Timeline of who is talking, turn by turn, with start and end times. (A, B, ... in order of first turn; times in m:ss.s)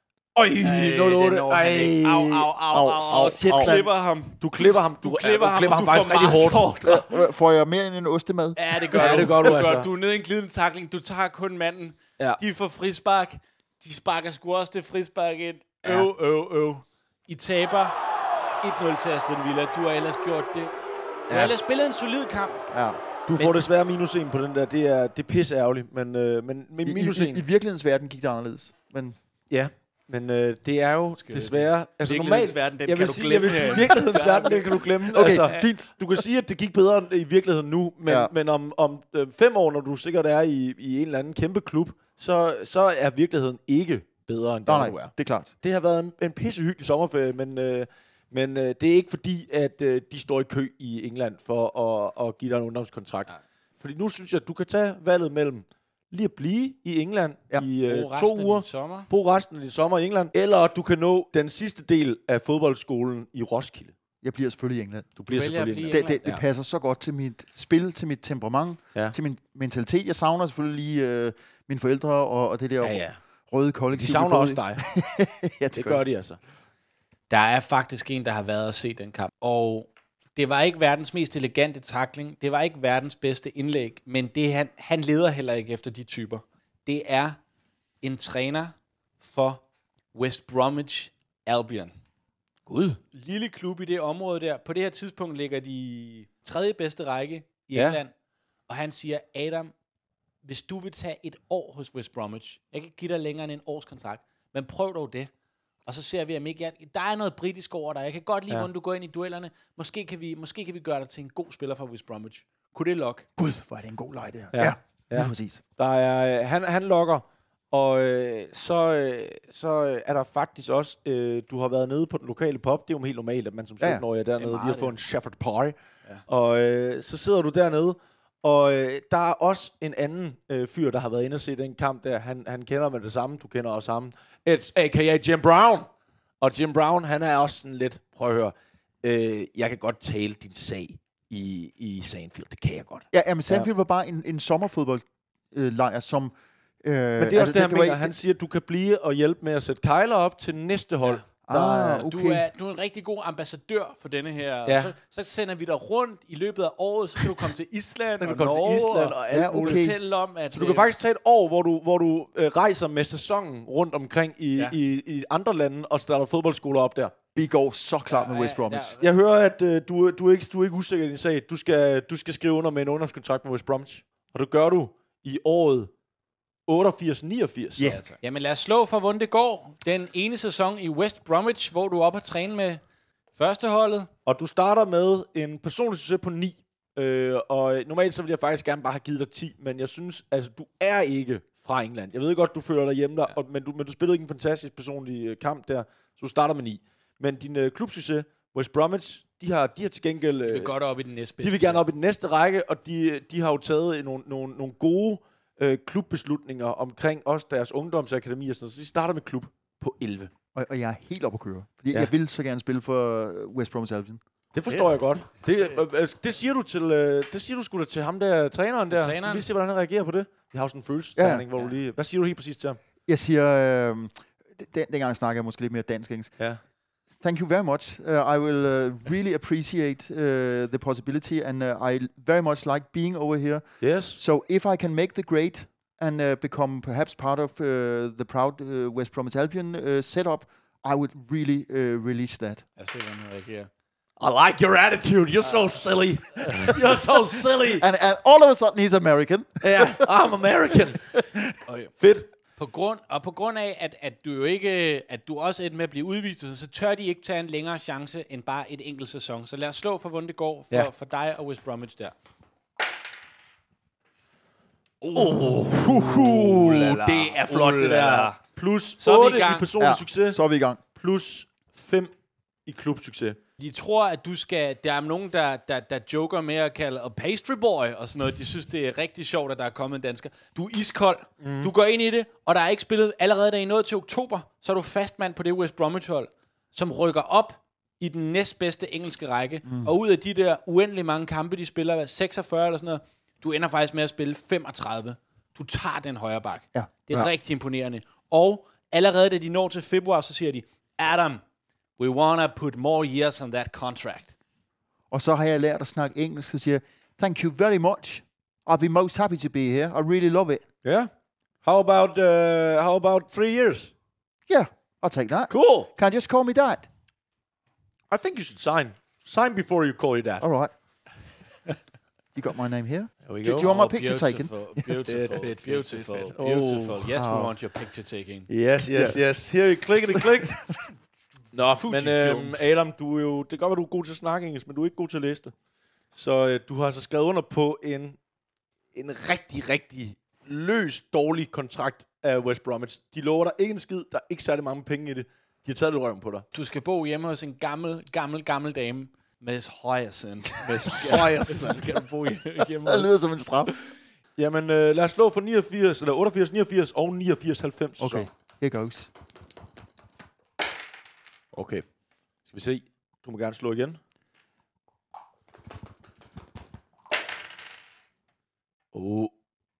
0:00.4-0:07.0 A
0:00.6-0:06.8 B
0:02.7-0:03.8 C
0:06.8-0:09.4 C
0:08.5-0:18.0 B
0:08.9-0:09.9 A
0:18.6-0:20.8 B
0:21.3-0:21.5 A
0:21.3-0:22.7 B
0:22.7-0:23.0 C
0:23.3-0:27.4 A
0:23.4-0:23.6 B
0:26.8-0:29.2 C
0:29.5-0:45.1 A
0:31.1-0:35.7 B
0:35.1-0:36.0 C
0:38.0-0:38.3 C
0:44.6-0:45.5 C
0:45.6-1:03.9 A
0:57.8-0:59.1 B
1:04.2-1:05.1 C
1:05.2-1:06.4 A
1:05.3-1:06.3 B
1:05.8-1:16.0 C
1:12.8-1:13.2 A
1:13.9-1:14.8 A
1:15.7-1:16.4 A
1:17.3-1:27.4 B
1:28.0-1:29.6 B
1:30.1-1:31.9 B
1:32.7-1:33.0 A
1:33.1-1:38.1 B
1:37.7-1:38.0 A
1:38.7-1:39.7 B
1:40.4-1:45.3 B
1:45.8-1:53.2 B
1:53.4-1:55.6 C
1:54.5-2:05.8 A
2:04.4-2:05.0 B
2:06.3-2:15.9 A
2:16.4-2:23.7 A
2:23.1-2:28.1 C
2:27.2-2:32.0 A
2:31.4-2:32.4 C
2:32.0-2:40.9 B
2:34.7-2:34.9 A
2:38.2-2:39.9 A
2:39.3-2:40.0 C
2:40.5-2:47.1 A
2:47.4-2:49.0 C
2:48.1-2:49.0 B
2:49.0-2:55.9 A
2:56.7-2:58.0 A
2:57.8-3:02.8 B
3:03.3-3:04.1 B
3:04.2-3:20.7 A
3:20.4-3:21.8 B
3:21.4-3:30.3 A
3:30.5-3:34.2 C
3:34.5-3:42.8 A
3:38.9-3:39.5 B
3:41.2-3:41.4 C
3:43.0-3:46.3 C
3:47.2-3:53.6 C
3:53.8-3:54.2 A
3:54.2-4:02.6 C
4:02.8-4:03.7 B
4:04.2-4:07.9 A
4:06.4-4:06.8 B
4:07.8-4:10.1 C
4:09.6-4:11.2 A
4:11.1-4:11.4 C
4:11.7-4:11.9 B
4:12.0-4:12.3 A
4:12.6-4:22.1 B
4:25.0-4:28.4 B
4:25.1-4:30.4 A
4:29.0-4:29.7 B
4:29.8-4:30.8 C
4:31.0-4:32.1 A
4:32.6-4:33.4 A
4:33.6-5:01.4 B
4:41.4-4:41.7 A
4:56.7-4:57.3 C
5:02.0-5:04.4 B
5:05.1-5:10.6 C
5:10.8-5:11.1 A
5:11.6-5:13.9 A
5:14.5-5:16.9 C
5:15.5-5:15.9 A
5:18.1-5:20.4 A
5:20.4-5:20.7 C
5:22.4-5:24.5 C
5:23.2-5:23.7 A
5:23.5-5:28.5 B
5:25.0-5:27.1 A
5:27.1-5:27.5 C
5:28.5-5:30.6 A
5:28.9-5:29.2 C
5:31.5-5:35.5 A
5:31.7-5:32.8 B
5:36.1-5:38.2 A
5:38.9-5:46.4 A
5:46.5-5:53.1 B
5:50.8-5:52.0 A
5:52.8-5:53.7 C
5:54.4-5:58.3 A
5:58.0-5:59.1 C
6:01.5-6:01.8 A
6:02.5-6:04.0 A
6:08.9-6:09.3 A